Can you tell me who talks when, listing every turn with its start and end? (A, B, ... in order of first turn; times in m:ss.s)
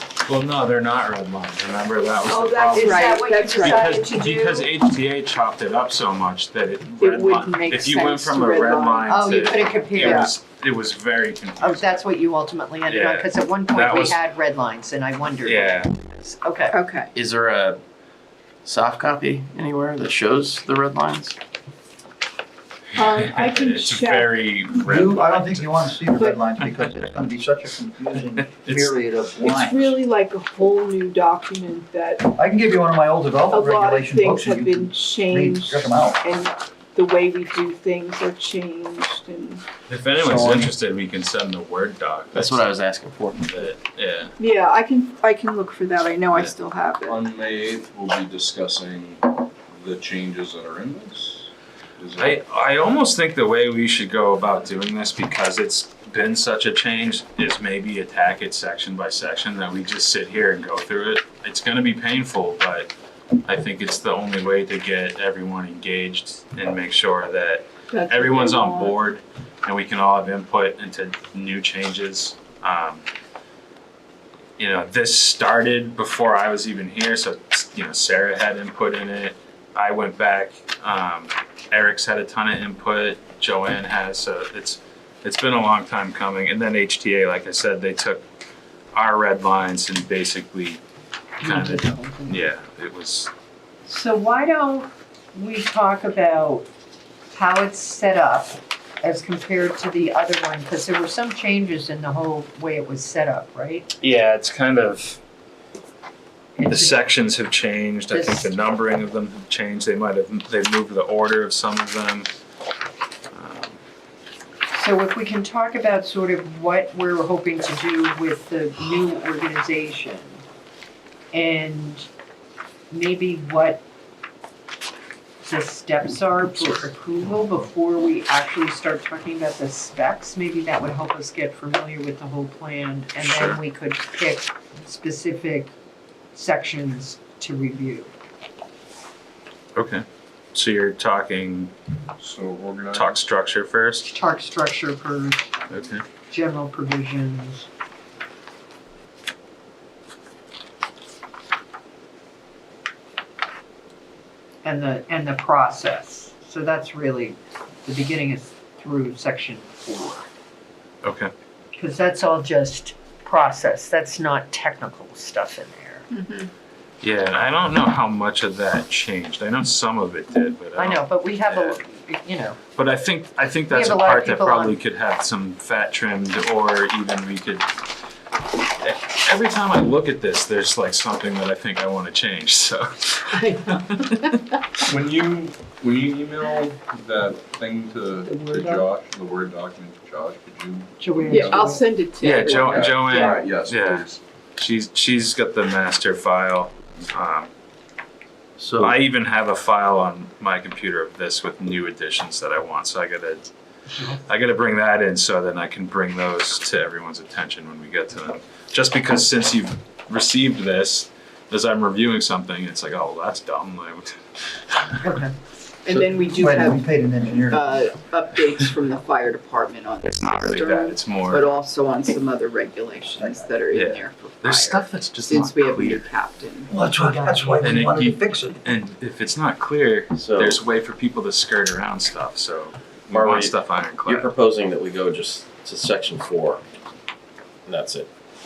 0:00.2-0:12.0 A
0:02.2-0:04.2 B
0:02.7-0:04.6 C
0:07.0-0:10.3 B
0:09.0-0:10.3 C
0:11.6-0:16.8 C
0:12.9-0:14.2 A
0:15.4-0:15.9 A
0:16.7-0:17.1 B
0:17.1-0:17.8 D
0:18.6-0:21.4 D
0:22.9-0:24.4 B
0:23.2-0:25.8 A
0:24.8-0:30.0 E
0:26.1-0:26.4 B
0:28.6-0:29.0 A
0:29.4-0:32.2 B
0:32.2-0:36.2 E
0:33.5-0:39.6 B
0:39.9-0:42.6 A
0:40.3-0:40.7 D
0:42.3-0:43.6 D
0:43.4-0:44.3 A
0:44.4-0:47.2 B
0:47.0-0:52.4 F
0:52.2-1:02.9 A
1:03.4-1:13.0 A
1:07.9-1:09.0 B
1:14.6-1:28.2 A
1:28.9-1:30.8 A
1:31.4-1:32.5 C
1:31.4-1:33.3 A
1:33.8-1:36.7 C
1:37.3-1:43.9 C
1:44.0-1:45.2 A
1:46.6-1:47.1 C
1:46.7-1:52.3 A
1:48.1-1:48.5 C
1:53.3-1:53.8 A
1:54.7-2:00.4 C
2:01.3-2:02.1 C
2:02.9-2:03.8 C
2:05.4-2:15.7 C
2:13.2-2:13.6 A
2:16.3-2:18.1 C
2:19.7-2:21.7 A
2:22.2-2:23.2 F
2:22.9-2:24.1 A
2:24.1-2:25.5 C
2:25.7-2:26.0 A
2:26.3-2:27.7 C
2:34.6-2:40.3 C
2:41.0-2:41.3 A
2:41.7-2:46.1 C
2:46.1-2:46.5 B
2:47.0-2:51.8 A
2:50.8-2:52.6 C
2:52.8-2:57.7 A
2:53.7-2:54.8 C
2:58.8-3:03.9 A
3:03.3-3:04.4 C
3:04.9-3:11.6 F
3:08.3-3:08.6 B
3:11.0-3:11.8 C
3:11.3-3:13.5 B
3:12.2-3:17.5 A
3:12.6-3:14.2 F
3:18.6-3:19.0 D
3:18.8-3:23.5 A
3:24.0-3:35.0 A
3:35.0-3:35.3 C
3:35.8-3:46.7 B
3:35.9-3:37.8 E
3:40.2-3:41.4 A
3:43.2-3:43.5 E
3:43.7-3:46.0 A
3:46.7-3:48.6 E
3:46.8-3:47.8 C
3:47.6-3:54.3 A
3:50.1-3:50.6 D
3:53.1-3:53.5 D
3:54.0-3:56.6 D
3:57.7-3:58.1 D